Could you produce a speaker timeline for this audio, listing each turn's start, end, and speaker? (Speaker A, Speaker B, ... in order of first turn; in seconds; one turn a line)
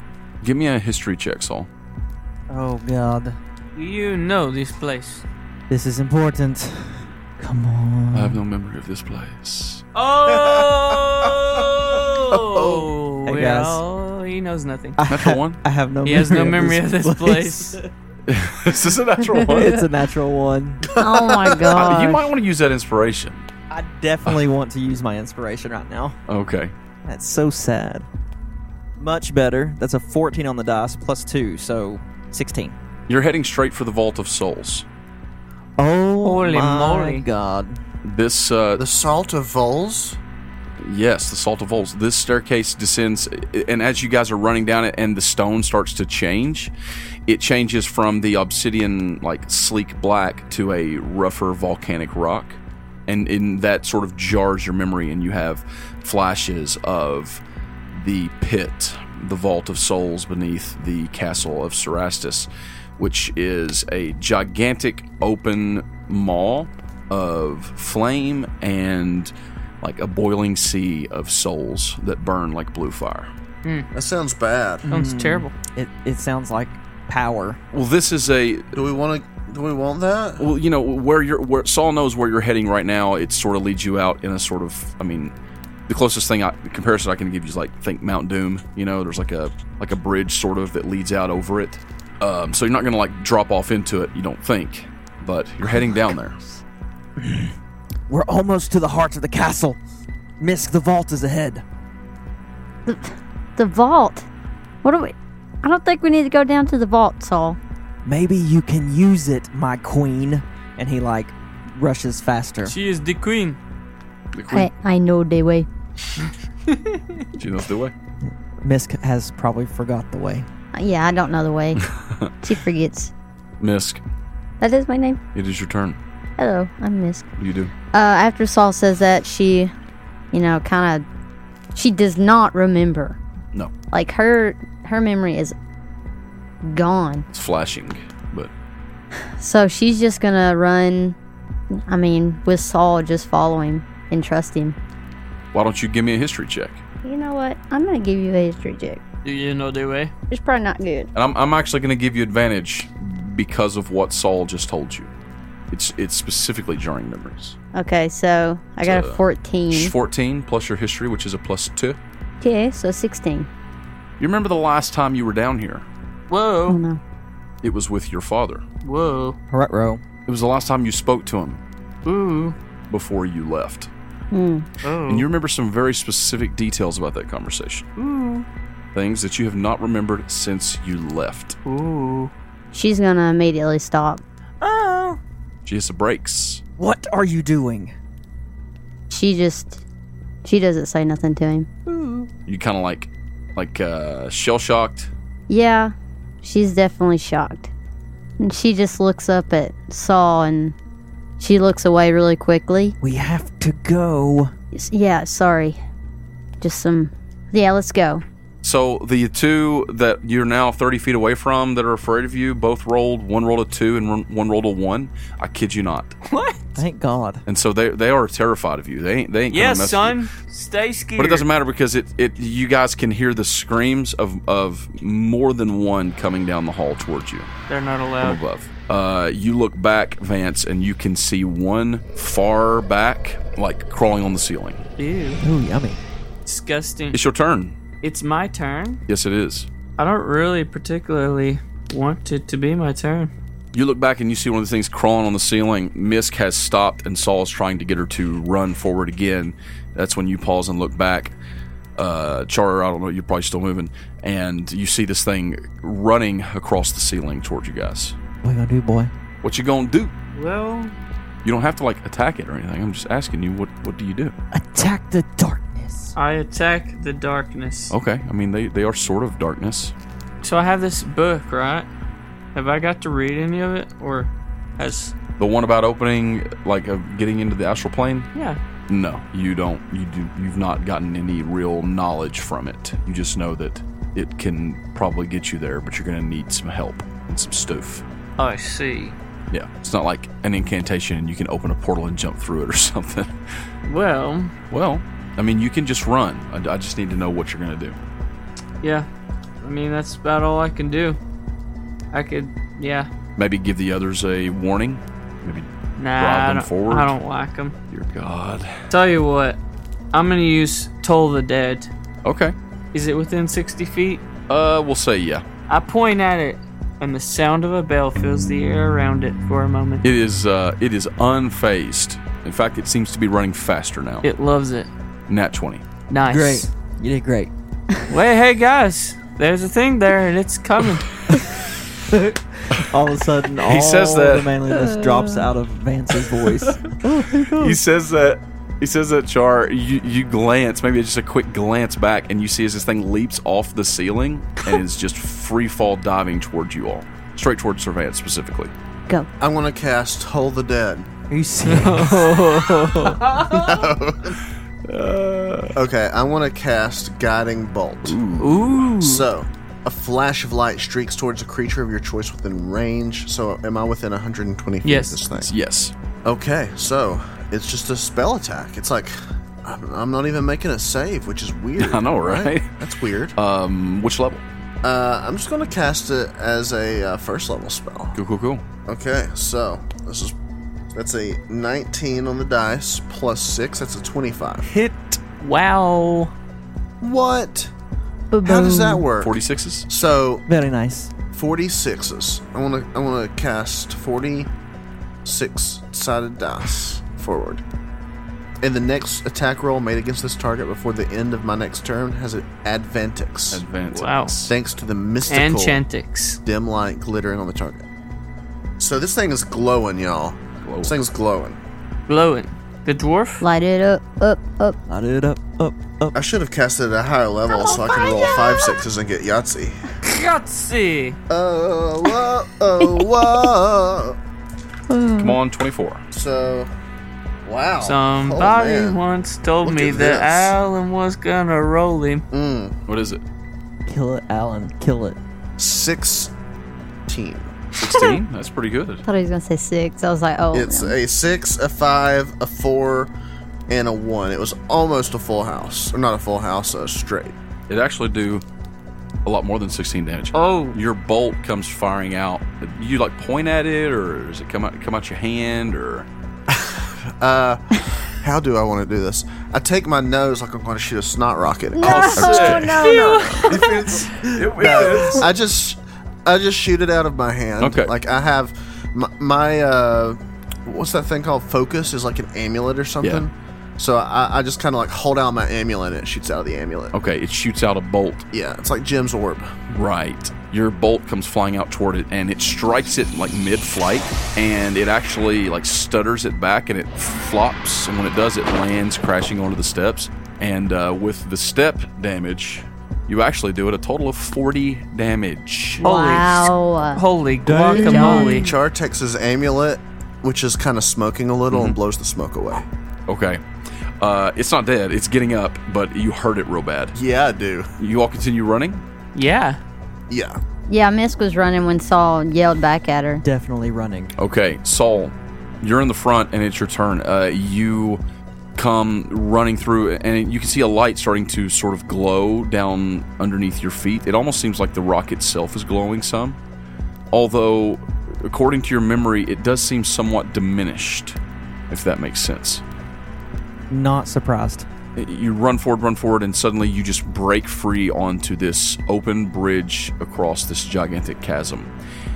Speaker A: 0.4-1.7
Speaker B: 2.5-3.4
Speaker C: 3.8-5.2
Speaker B: 5.7-8.4
Speaker A: 8.1-9.8
Speaker C: 9.9-15.0
Speaker D: 10.3-11.7
Speaker D: 12.3-12.9
Speaker B: 13.2-13.8
Speaker B: 15.0-17.9
Speaker A: 15.1-15.6
Speaker C: 16.0-17.8
Speaker A: 18.3-19.8
Speaker B: 19.4-20.8
Speaker D: 20.9-21.9
Speaker E: 21.0-22.3
Speaker A: 21.7-23.5
Speaker B: 23.7-26.1
Speaker A: 26.3-26.7
Speaker B: 27.1-28.1
Speaker B: 29.0-32.8
Speaker A: 33.1-34.9
Speaker B: 35.8-37.8
Speaker C: 36.2-37.2
Speaker A: 38.0-38.8
Speaker D: 38.8-40.2
Speaker A: 40.8-46.7
Speaker A: 47.3-57.4
Speaker A: 57.9-73.3
Speaker D: 73.9-74.9
Speaker B: 74.8-77.6
Speaker C: 74.9-75.5
Speaker A: 77.7-78.7
Speaker D: 78.7-80.5
Speaker A: 80.4-85.3
Speaker A: 85.9-96.4
Speaker B: 97.2-97.5
Speaker B: 98.1-99.8
Speaker B: 100.4-101.6
Speaker E: 102.8-104.3
Speaker E: 104.8-107.6
Speaker B: 108.0-112.7
Speaker C: 112.6-113.6
Speaker A: 114.3-114.7
Speaker E: 114.5-115.7
Speaker C: 116.7-117.2
Speaker A: 117.4-117.9
Speaker B: 118.2-120.5
Speaker E: 120.7-121.9
Speaker A: 121.8-122.3
Speaker E: 122.4-123.1
Speaker A: 123.6-124.0
Speaker E: 124.6-125.2
Speaker A: 125.3-126.0
Speaker E: 126.4-127.3
Speaker A: 127.4-127.7
Speaker E: 127.9-129.7
Speaker E: 130.3-131.0
Speaker E: 131.7-133.2
Speaker E: 133.9-135.5
Speaker E: 136.6-137.3
Speaker A: 137.3-138.5
Speaker E: 139.4-141.2
Speaker E: 141.9-144.8
Speaker A: 145.5-146.8
Speaker E: 147.0-149.0
Speaker C: 149.2-150.1
Speaker E: 150.3-151.1
Speaker A: 151.1-155.1
Speaker A: 155.7-157.6
Speaker E: 157.7-159.9
Speaker A: 158.8-159.2
Speaker A: 159.7-162.0
Speaker E: 162.4-163.5
Speaker A: 164.2-165.8
Speaker C: 166.3-166.8
Speaker E: 166.7-167.0
Speaker A: 167.6-168.6
Speaker C: 168.8-169.4
Speaker B: 169.5-170.0
Speaker A: 170.3-171.6
Speaker C: 172.0-172.6
Speaker A: 172.9-173.9
Speaker E: 174.3-174.7
Speaker C: 174.8-175.3
Speaker A: 175.1-177.9
Speaker C: 178.0-178.4
Speaker A: 178.9-181.6
Speaker C: 181.6-182.3
Speaker E: 182.7-184.2
Speaker C: 184.6-185.2
Speaker A: 185.6-186.6
Speaker B: 186.8-187.9
Speaker E: 189.1-189.8
Speaker E: 190.4-191.7
Speaker C: 191.9-192.3
Speaker A: 192.4-195.1
Speaker E: 195.5-197.7
Speaker E: 198.4-200.7
Speaker E: 201.4-202.9
Speaker B: 203.0-204.5
Speaker E: 204.7-205.8
Speaker E: 206.6-208.2
Speaker A: 208.6-216.2
Speaker C: 216.2-216.6
Speaker B: 216.8-217.4
Speaker A: 217.5-220.2
Speaker C: 219.5-221.4
Speaker A: 221.2-227.5
Speaker C: 227.7-228.4
Speaker A: 228.2-234.8
Speaker C: 235.0-235.4
Speaker B: 235.4-236.0
Speaker C: 236.4-237.2
Speaker A: 237.1-237.8
Speaker C: 238.0-239.0
Speaker A: 239.1-239.7
Speaker C: 240.0-243.3
Speaker A: 243.7-251.3
Speaker A: 252.0-258.1
Speaker B: 258.4-259.1
Speaker A: 259.4-260.1
Speaker C: 260.3-260.9
Speaker A: 261.4-264.3
Speaker B: 264.5-266.1
Speaker C: 266.1-267.9
Speaker A: 267.9-269.9
Speaker C: 270.4-271.9
Speaker C: 272.5-275.1
Speaker A: 275.4-278.3
Speaker A: 278.9-288.0
Speaker C: 288.4-289.2
Speaker A: 289.5-293.3
Speaker C: 293.8-294.5
Speaker A: 294.7-298.0
Speaker C: 298.8-299.1
Speaker C: 299.6-301.2
Speaker C: 302.1-303.1
Speaker A: 303.4-307.1
Speaker C: 305.9-307.7
Speaker A: 307.9-308.8
Speaker C: 308.9-309.6
Speaker C: 310.1-311.9
Speaker A: 312.2-312.5
Speaker C: 312.9-314.2
Speaker A: 314.5-315.4
Speaker C: 315.7-320.0
Speaker A: 320.0-324.3
Speaker C: 324.2-324.9
Speaker A: 325.3-325.8
Speaker C: 326.1-326.7
Speaker B: 326.2-327.5
Speaker C: 328.1-331.1
Speaker B: 332.1-337.8
Speaker A: 333.6-334.6
Speaker E: 334.8-335.4
Speaker A: 337.5-348.7
Speaker D: 349.4-351.1
Speaker B: 351.3-353.2
Speaker C: 351.7-353.8
Speaker D: 353.5-354.4
Speaker A: 354.9-355.8
Speaker D: 355.7-358.2
Speaker A: 358.1-358.9
Speaker C: 358.4-359.3
Speaker D: 359.0-365.5
Speaker C: 364.8-365.2
Speaker A: 365.4-365.9
Speaker D: 366.2-373.4
Speaker A: 371.8-372.7
Speaker A: 373.3-374.4
Speaker D: 374.8-378.2
Speaker A: 378.1-378.6
Speaker D: 378.9-380.3
Speaker D: 380.9-384.7
Speaker A: 384.7-385.2
Speaker C: 385.4-386.3
Speaker D: 387.0-387.7
Speaker E: 388.3-389.1
Speaker D: 388.4-389.4
Speaker A: 389.2-389.9
Speaker D: 389.9-390.4
Speaker B: 390.5-391.1
Speaker D: 391.3-394.5
Speaker D: 395.2-397.6
Speaker D: 398.6-403.6
Speaker A: 403.5-404.5
Speaker C: 403.9-404.3
Speaker D: 404.5-405.8
Speaker C: 405.3-406.4
Speaker D: 406.4-407.8
Speaker D: 408.8-411.6
Speaker A: 410.6-410.9
Speaker C: 412.1-413.4
Speaker E: 413.4-414.8
Speaker B: 414.9-416.1
Speaker D: 416.1-419.9
Speaker E: 417.5-418.8
Speaker C: 420.0-421.2
Speaker D: 421.3-424.2
Speaker E: 424.9-425.4
Speaker A: 425.2-426.0
Speaker D: 426.1-426.7
Speaker D: 427.4-429.0
Speaker C: 427.8-432.2
Speaker D: 429.6-430.5
Speaker D: 432.3-432.8
Speaker A: 432.9-433.2
Speaker B: 433.9-435.2
Speaker D: 435.6-436.3
Speaker D: 437.1-437.6
Speaker A: 437.8-439.0
Speaker E: 439.0-441.0
Speaker D: 440.5-443.1
Speaker D: 443.7-447.3
Speaker A: 447.7-448.4
Speaker A: 449.2-456.1
Speaker C: 450.3-450.8
Speaker D: 456.5-462.7
Speaker E: 461.7-463.6
Speaker A: 461.8-463.0
Speaker C: 462.5-463.5
Speaker D: 463.5-476.9
Speaker A: 463.5-465.3
Speaker A: 467.6-467.9
Speaker A: 476.9-478.2
Speaker D: 478.3-479.5
Speaker A: 479.7-495.9
Speaker E: 495.8-497.0
Speaker C: 495.8-498.5
Speaker B: 497.4-498.3
Speaker E: 497.7-498.5
Speaker D: 498.1-502.6
Speaker A: 501.5-501.8
Speaker A: 503.1-503.4
Speaker A: 504.0-506.9
Speaker D: 506.9-507.7
Speaker A: 507.8-508.8
Speaker C: 509.1-509.6
Speaker D: 510.1-510.4
Speaker E: 510.7-513.2
Speaker B: 513.2-514.1
Speaker A: 514.2-518.0
Speaker A: 518.6-526.4
Speaker A: 527.1-531.2
Speaker A: 531.7-532.6
Speaker B: 533.7-534.7
Speaker A: 535.0-541.7